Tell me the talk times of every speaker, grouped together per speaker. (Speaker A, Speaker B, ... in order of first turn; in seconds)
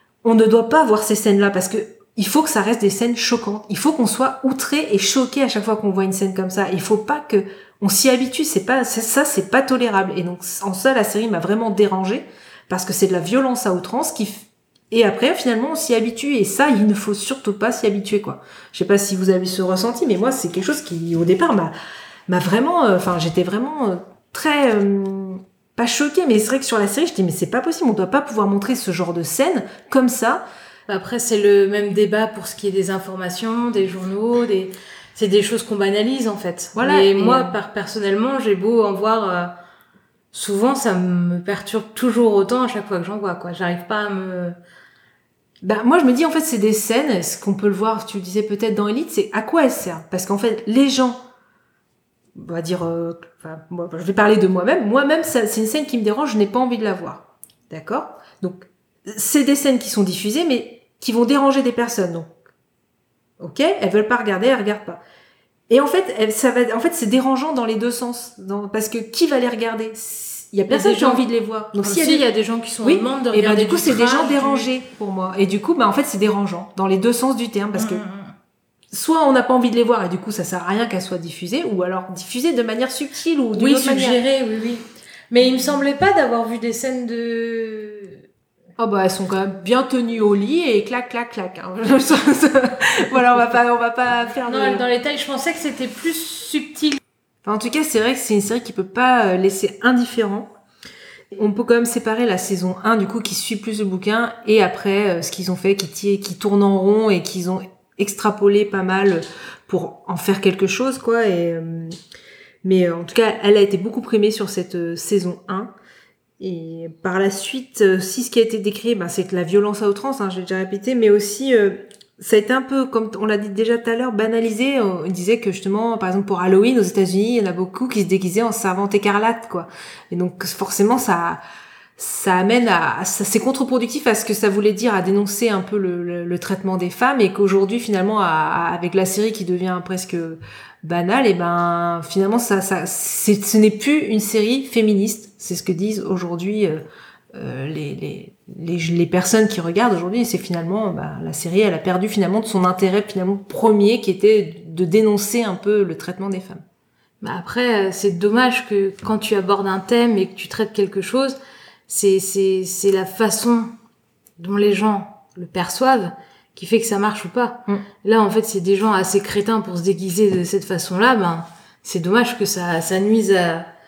Speaker A: 0.2-21.7, 22.3-30.4, 36.8-37.5, 45.6-51.2, 52.4-62.3, 63.4-65.0, 65.7-72.3, 72.8-78.0, 78.9-84.2, 88.8-94.8, 97.4-100.5, 101.3-112.0, 112.6-115.7, 116.4-131.4, 132.0-156.6
Speaker B: 30.9-39.5, 40.3-44.6, 70.7-71.2, 71.8-74.7, 77.8-78.3, 83.5-88.2, 94.5-97.0, 157.2-163.7, 164.4-173.7